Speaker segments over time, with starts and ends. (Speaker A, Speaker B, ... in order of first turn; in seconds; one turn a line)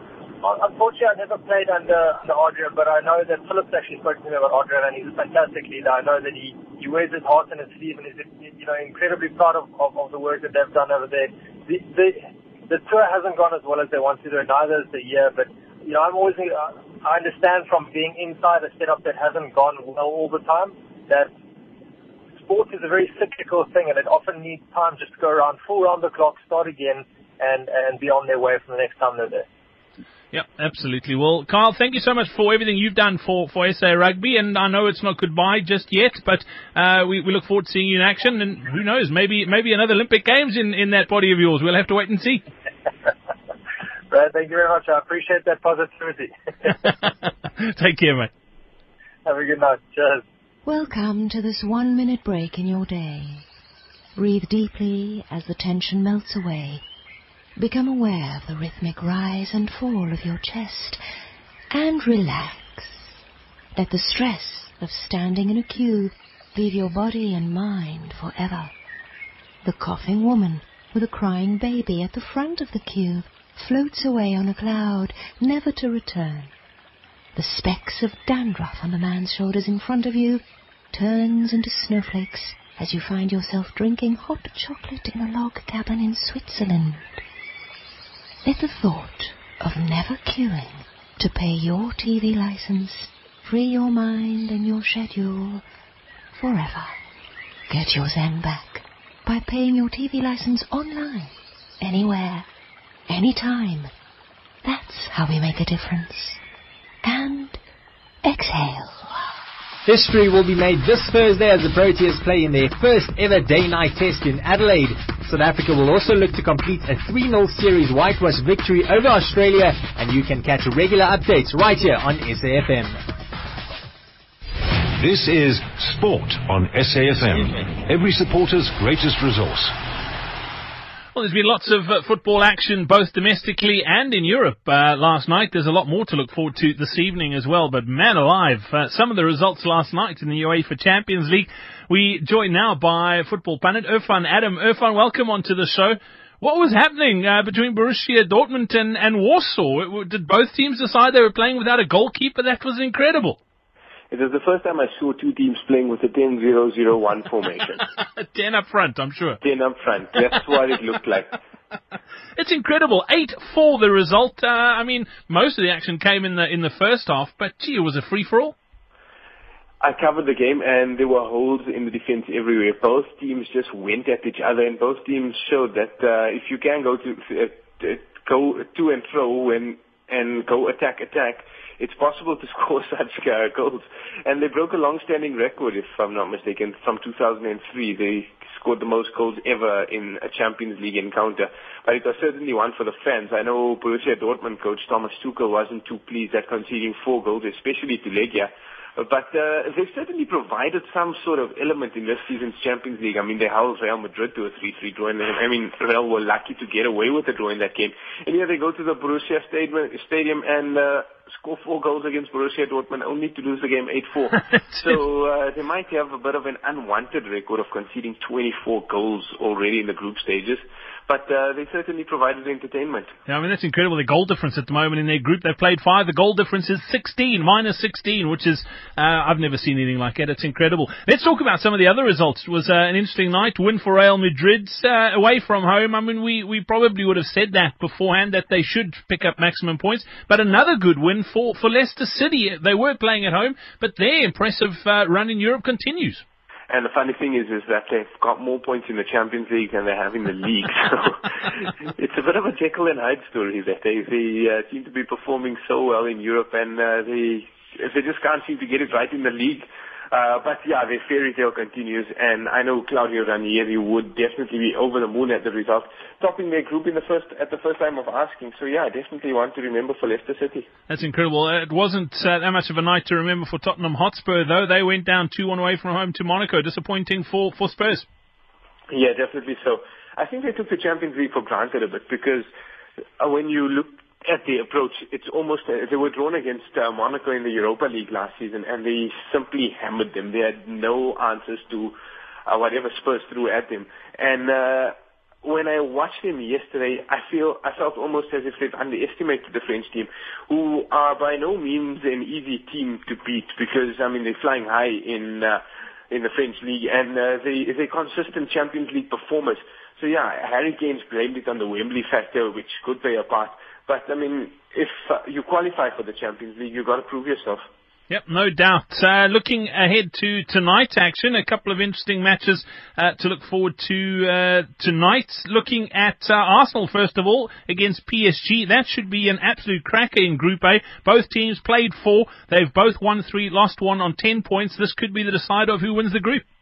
Speaker A: 0.4-21.3
Speaker A: 22.4-29.5
Speaker B: 30.3-42.4
Speaker A: 44.1-46.3
Speaker B: 46.8-48.3
Speaker A: 49.2-50.2
Speaker C: 50.6-53.4
Speaker C: 54.1-56.8
Speaker C: 57.6-61.0
Speaker C: 61.7-63.1
Speaker C: 63.7-68.7
Speaker C: 69.6-76.5
Speaker C: 77.3-80.4
Speaker C: 80.9-87.2
Speaker C: 88.4-95.6
Speaker C: 96.3-97.0
Speaker C: 97.7-102.5
Speaker C: 103.1-103.9
Speaker C: 104.6-106.4
Speaker C: 107.0-107.6
Speaker C: 108.2-109.1
Speaker D: 109.8-123.0
Speaker E: 125.0-129.7
Speaker B: 131.1-153.4
Speaker F: 154.1-157.8
Speaker B: 158.2-159.4
Speaker F: 159.4-161.4
Speaker B: 162.4-168.5
Speaker F: 169.8-223.1
Speaker B: 223.3-246.2
Speaker F: 246.7-270.7
Speaker B: 270.9-278.1
Speaker F: 278.9-282.4
Speaker F: 283.2-291.9
Speaker F: 292.5-317.6
Speaker B: 318.1-336.4